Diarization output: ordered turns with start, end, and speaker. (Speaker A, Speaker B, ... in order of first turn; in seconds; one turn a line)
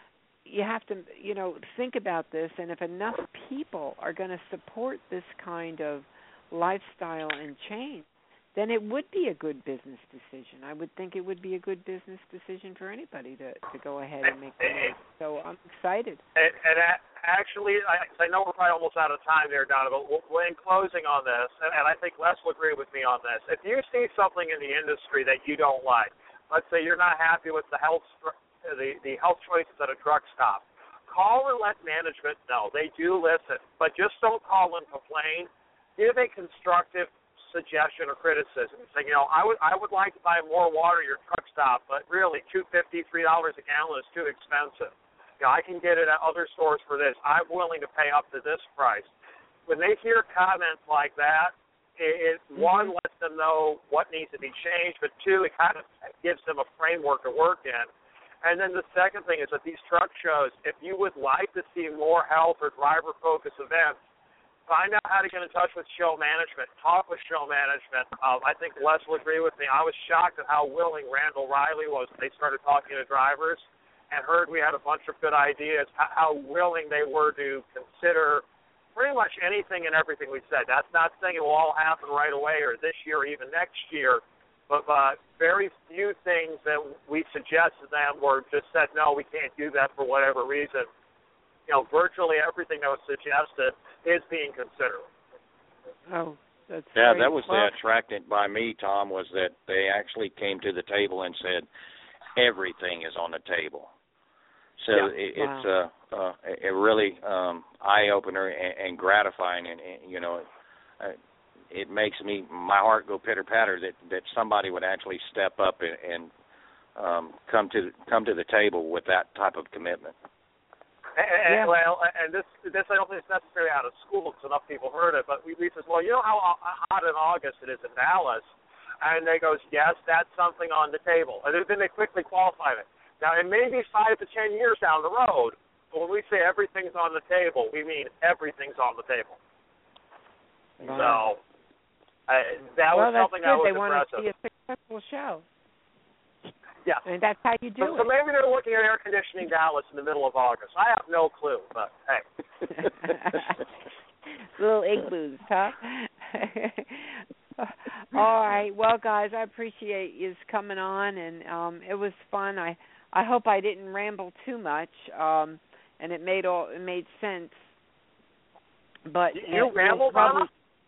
Speaker A: 0.4-16.2
Speaker B: 14.6-14.9
Speaker B: 16.4-49.1
Speaker B: 49.7-57.9
Speaker B: 58.4-64.0
Speaker B: 64.7-78.4
Speaker B: 78.9-90.9
Speaker B: 91.7-95.0
Speaker A: 96.1-97.8
Speaker C: 96.9-101.7
Speaker C: 102.3-103.9
Speaker C: 104.8-110.5
Speaker A: 104.9-105.7
Speaker C: 111.7-116.3
Speaker C: 117.0-120.1
Speaker B: 121.2-128.4
Speaker A: 121.5-121.7
Speaker B: 129.0-139.4
Speaker A: 140.8-141.2
Speaker B: 140.8-141.4
Speaker B: 142.3-144.3
Speaker A: 142.9-145.4
Speaker A: 147.0-148.1
Speaker B: 147.8-152.2
Speaker A: 152.7-153.6
Speaker A: 154.4-167.7
Speaker A: 169.1-170.5
Speaker B: 169.3-170.5